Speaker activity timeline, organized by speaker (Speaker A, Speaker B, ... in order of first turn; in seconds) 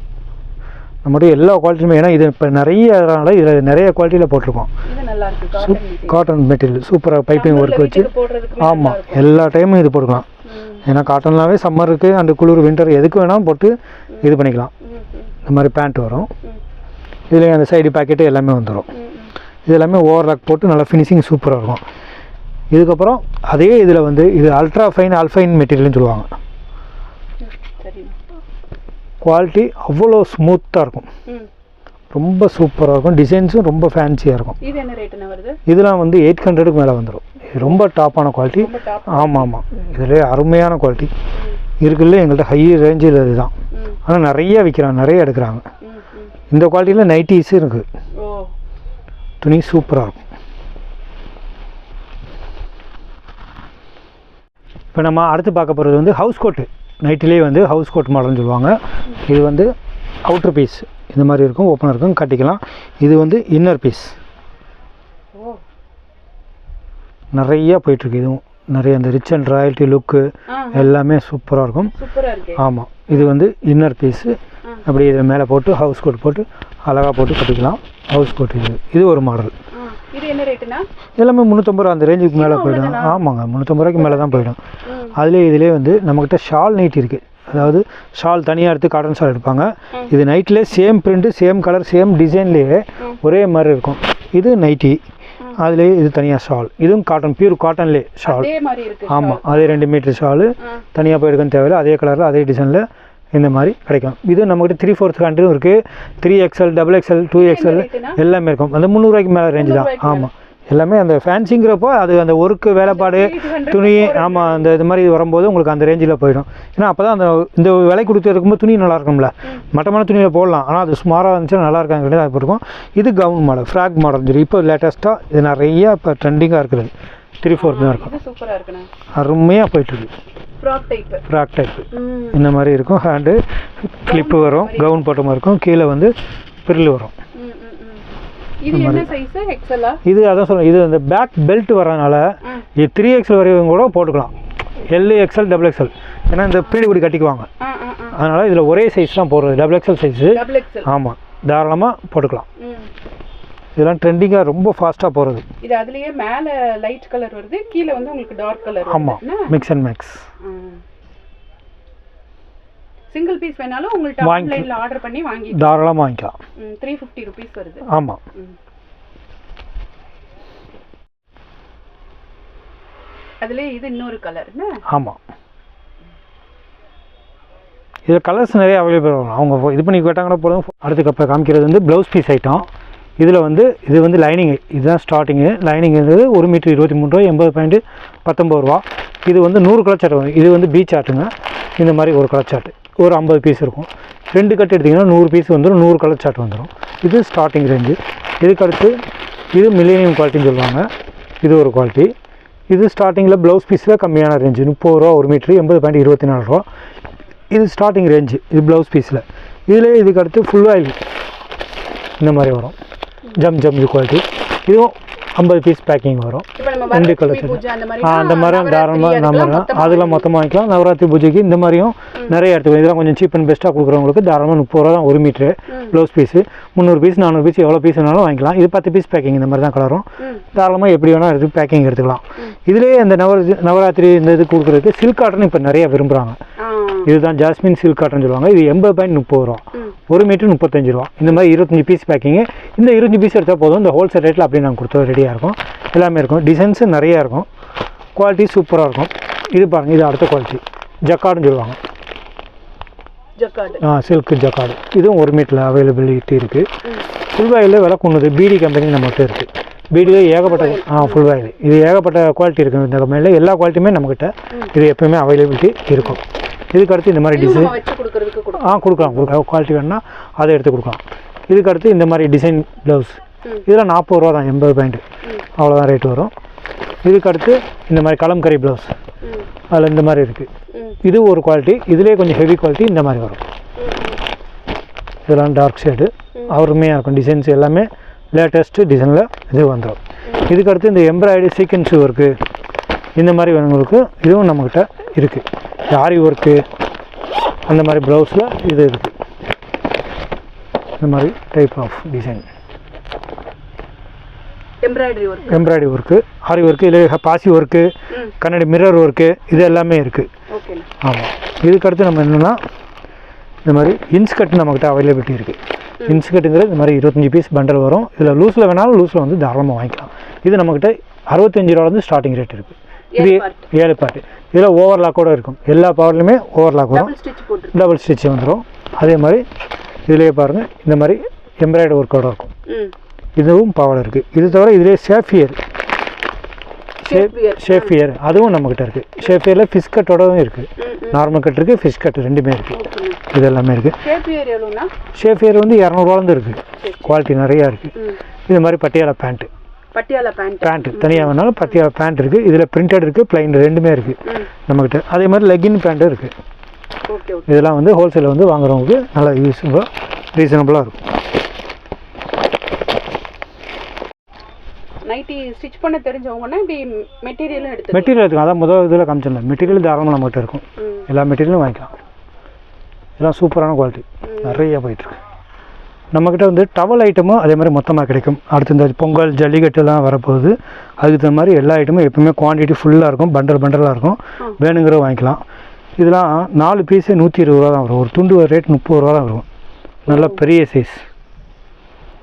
Speaker A: 1.0-4.7, 5.6-10.3, 10.8-14.7, 15.4-16.3, 17.3-18.9, 19.7-21.8, 22.7-26.3, 29.2-31.1, 32.1-34.6, 35.7-41.1, 41.8-43.5, 44.1-45.6, 46.5-47.9, 49.4-50.2, 54.9-58.8, 59.3-59.7, 60.2-64.2, 67.3-71.9, 72.6-79.5, 81.2-84.6, 85.1-95.0, 95.6-98.5, 99.1-128.1, 129.1-130.1, 131.3-136.1, 136.7-137.1, 138.7-139.1, 140.1-144.3, 144.9-147.5, 148.1-152.5, 153.8-155.4, 158.9-160.2, 164.2-164.7, 165.5-166.4, 167.9-168.2, 174.9-175.2, 178.1-182.7, 183.2-199.0, 199.5-200.9, 201.4-202.1, 202.7-206.7, 207.5-211.0, 212.2-212.8, 213.4-236.4, 237.1-247.5, 248.2-251.8, 253.8-256.7, 257.3-267.7, 268.6-275.0, 275.6-276.3, 277.0-278.9, 279.7-280.5, 281.0-283.4, 285.3-292.3, 293.2-296.6, 297.7-299.1, 301.0-302.4, 305.4-310.3, 311.0-312.6, 313.6-327.1, 327.7-329.4, 330.1-332.5, 333.4-335.6, 337.1-344.0, 345.1-347.9, 348.5-349.5, 350.6-356.3, 357.5-361.1, 367.9-371.9, 373.2-375.2, 376.1-385.4, 386.0-389.5, 390.1-391.0
Speaker B: 4.9-6.2, 7.3-9.3, 10.5-10.8, 14.1-15.3, 18.9-19.3, 27.4-28.1, 34.6-35.6, 38.6-39.5, 41.3-41.6, 43.7-44.0, 45.8-46.3, 48.2-48.5, 65.4-65.6, 70.5-70.9, 71.9-72.6, 79.7-80.8, 82.4-83.2, 84.0-85.2, 98.2-99.8, 107.4-108.2, 109.5-110.3, 112.8-114.8, 127.5-128.9, 130.6-131.2, 131.9-132.4, 134.1-135.0, 137.3-138.1, 138.6-140.0, 147.6-148.2, 150.3-150.9, 152.6-152.9, 155.6-159.5, 160.4-160.8, 163.1-165.7, 166.6-167.8, 173.4-174.8, 216.6-220.3, 225.7-225.9, 236.6-237.1, 253.4-253.8, 260.3-261.2, 267.3-269.2, 280.7-281.0, 283.8-284.2, 304.8-305.8, 310.5-310.9, 323.1-323.7, 326.9-327.8, 332.7-332.9, 337.0-338.0, 340.8-341.2, 342.7-343.2, 344.0-344.9, 346.8-347.1, 349.9-351.4, 357.1-357.5, 365.1-368.1, 370.8-371.1, 374.2-374.6, 390.1-390.4